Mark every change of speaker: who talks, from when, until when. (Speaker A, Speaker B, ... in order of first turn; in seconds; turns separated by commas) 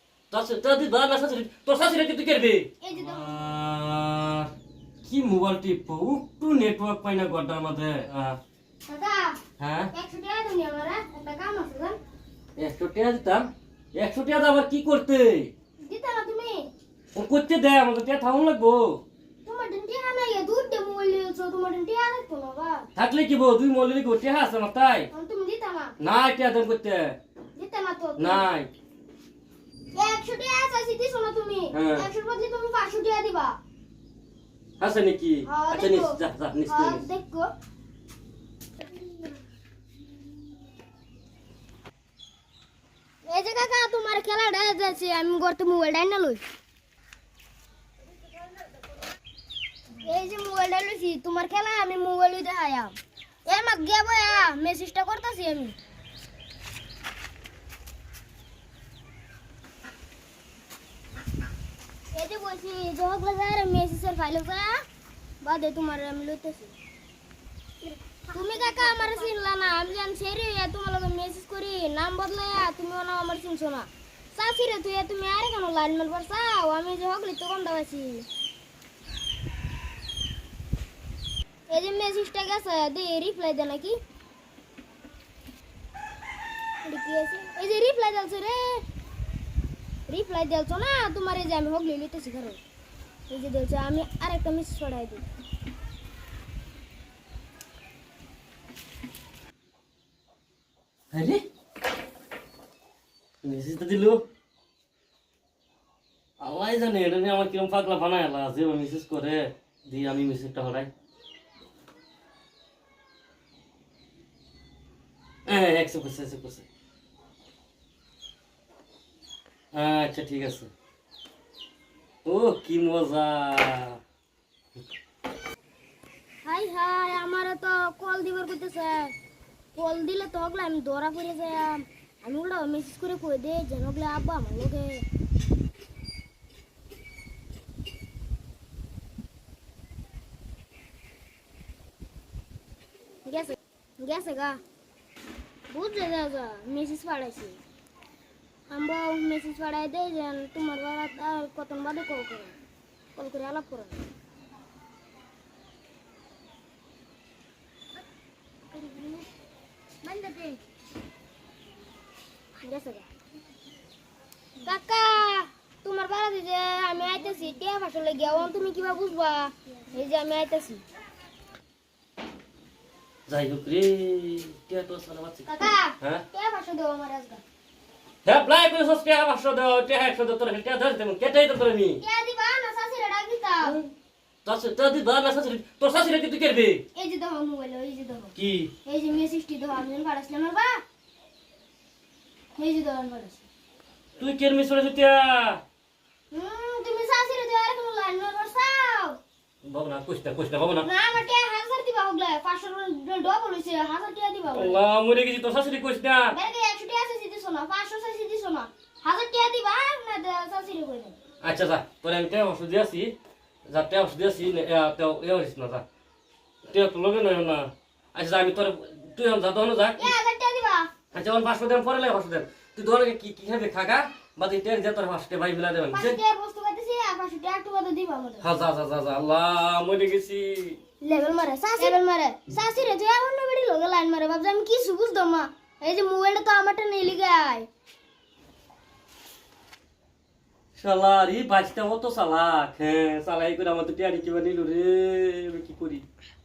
Speaker A: 0.3-4.5, Speaker B: 2.8-3.3, Speaker A: 5.0-8.4, Speaker B: 8.9-9.4, Speaker A: 9.6-9.9, Speaker B: 9.9-12.0, Speaker A: 12.6-15.5, Speaker B: 15.8-16.7, Speaker A: 17.1-19.0, Speaker B: 19.4-22.9, Speaker A: 22.9-25.1, Speaker B: 25.1-25.9, Speaker A: 26.0-27.1, Speaker B: 27.5-28.4, Speaker A: 28.2-28.7, Speaker B: 29.9-33.6, Speaker A: 31.7-32.1, Speaker A: 34.8-37.0, Speaker B: 35.5-37.5, Speaker B: 43.2-46.4, Speaker B: 50.0-55.8, Speaker B: 62.1-64.8, Speaker B: 65.4-66.8, Speaker B: 68.3-78.3, Speaker B: 81.7-84.0, Speaker B: 86.8-88.8, Speaker B: 90.1-92.6, Speaker B: 93.3-95.2, Speaker A: 101.1-101.4, Speaker A: 103.4-104.2, Speaker A: 106.4-110.9, Speaker A: 115.5-116.7, Speaker A: 119.7-120.7, Speaker A: 122.2-124.0, Speaker B: 126.4-129.1, Speaker B: 129.8-135.1, Speaker B: 143.2-144.6, Speaker B: 145.7-147.6, Speaker B: 148.7-152.6, Speaker B: 153.2-154.1, Speaker B: 158.7-159.2, Speaker B: 160.0-160.6, Speaker B: 162.6-163.1, Speaker B: 164.6-170.8, Speaker A: 173.3-176.2, Speaker B: 175.4-177.4, Speaker A: 178.2-182.0, Speaker B: 182.0-183.8, Speaker A: 184.4-186.8, Speaker B: 186.9-188.3, Speaker A: 188.3-188.7, Speaker B: 188.8-190.8, Speaker B: 192.6-193.4, Speaker A: 194.2-195.6, Speaker B: 196.3-199.2, Speaker A: 199.6-200.9, Speaker B: 200.8-204.8, Speaker A: 204.5-206.3, Speaker B: 206.3-211.2, Speaker A: 211.4-213.1, Speaker A: 213.7-215.8, Speaker A: 216.7-220.1, Speaker B: 219.9-220.9, Speaker A: 221.1-226.2, Speaker B: 225.9-228.4, Speaker A: 228.4-230.8, Speaker B: 231.0-237.7, Speaker A: 240.8-246.0